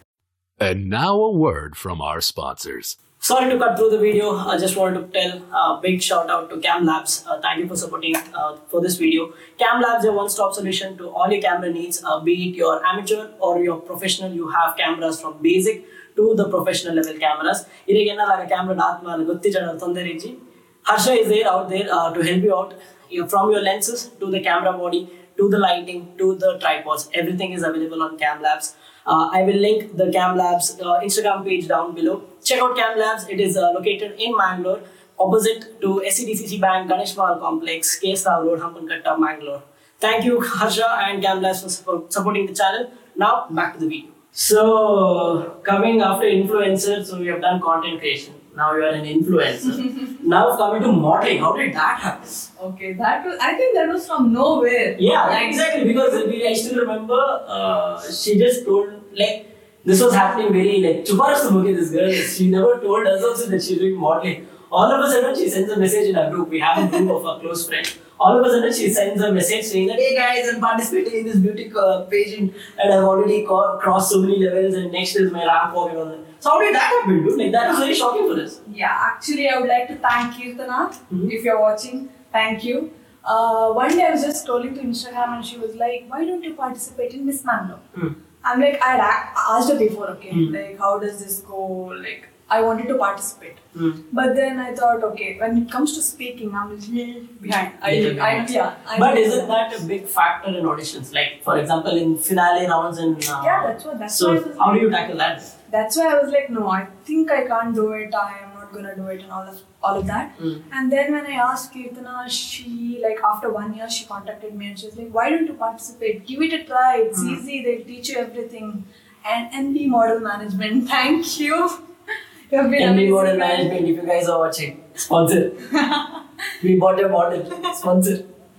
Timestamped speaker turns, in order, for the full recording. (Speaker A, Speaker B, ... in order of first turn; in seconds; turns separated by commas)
Speaker A: 0.6-3.0, Speaker B: 3.2-52.5, Speaker C: 52.6-56.2, Speaker B: 55.0-78.6, Speaker C: 78.6-87.8, Speaker C: 88.4-99.5, Speaker B: 97.8-105.5, Speaker C: 103.4-105.0, Speaker C: 105.7-121.8, Speaker B: 117.1-117.4, Speaker C: 122.5-123.8, Speaker B: 122.8-125.6, Speaker C: 125.7-126.2, Speaker B: 126.6-128.2